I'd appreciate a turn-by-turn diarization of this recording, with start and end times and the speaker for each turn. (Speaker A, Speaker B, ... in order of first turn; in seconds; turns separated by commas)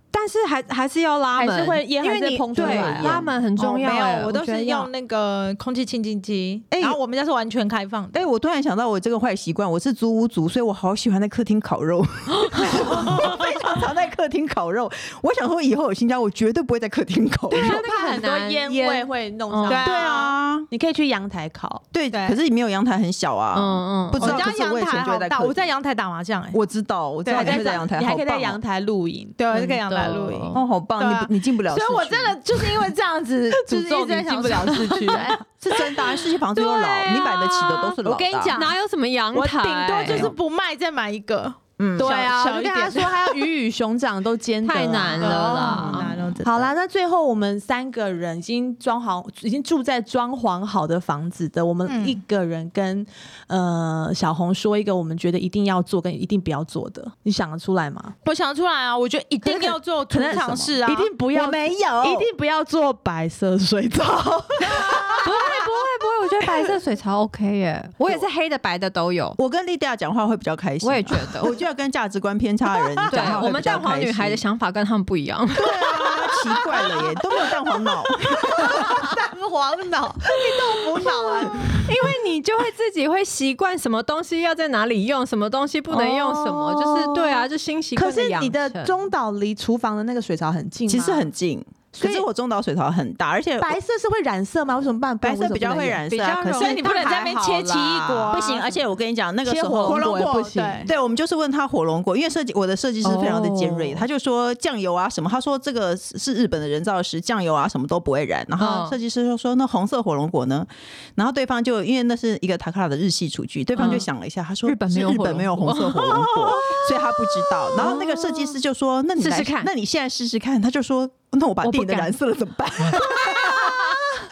Speaker A: 0.1-4.6, Speaker B: 1.4-3.2, Speaker C: 2.6-2.9, Speaker D: 2.6-3.3, Speaker C: 3.6-8.2, Speaker B: 4.5-4.9, Speaker D: 6.7-7.0, Speaker D: 8.1-17.8, Speaker B: 17.6-21.8, Speaker A: 17.6-18.9, Speaker C: 17.8-19.0, Speaker A: 19.5-19.8, Speaker C: 19.7-20.4, Speaker D: 19.8-20.7, Speaker D: 21.9-25.7, Speaker C: 22.1-22.4, Speaker A: 23.5-24.4, Speaker C: 24.2-26.6, Speaker D: 26.5-28.6, Speaker C: 27.2-27.9, Speaker B: 27.3-29.4, Speaker C: 29.4-35.4, Speaker A: 29.5-30.6, Speaker D: 30.5-32.4, Speaker B: 33.5-35.4, Speaker D: 35.6-38.6, Speaker A: 35.9-38.0, Speaker C: 38.0-38.8, Speaker A: 38.5-40.3, Speaker C: 39.3-43.5, Speaker D: 40.1-40.3, Speaker D: 41.8-42.1, Speaker B: 42.0-58.1, Speaker A: 44.6-46.1, Speaker C: 45.2-46.7, Speaker D: 45.6-46.5, Speaker C: 51.9-52.2, Speaker C: 58.2-61.1, Speaker B: 59.4-65.7, Speaker D: 61.3-62.3, Speaker D: 64.8-65.0, Speaker A: 65.2-69.4, Speaker B: 66.4-66.8, Speaker D: 69.4-74.4, Speaker A: 70.8-71.6, Speaker B: 72.9-73.4, Speaker A: 73.1-76.5, Speaker D: 75.5-79.2, Speaker B: 78.4-81.8, Speaker A: 81.8-89.0, Speaker B: 85.9-91.3, Speaker D: 90.9-93.8, Speaker B: 92.0-92.3, Speaker B: 93.6-98.4, Speaker D: 95.2-96.9, Speaker A: 96.1-97.5, Speaker C: 96.5-98.7, Speaker D: 98.3-124.1, Speaker B: 99.5-100.9, Speaker C: 100.5-100.9, Speaker A: 103.0-104.0, Speaker A: 108.6-109.0, Speaker A: 113.8-114.1, Speaker A: 114.7-118.6, Speaker A: 119.2-119.7, Speaker A: 121.6-122.1, Speaker A: 122.9-124.0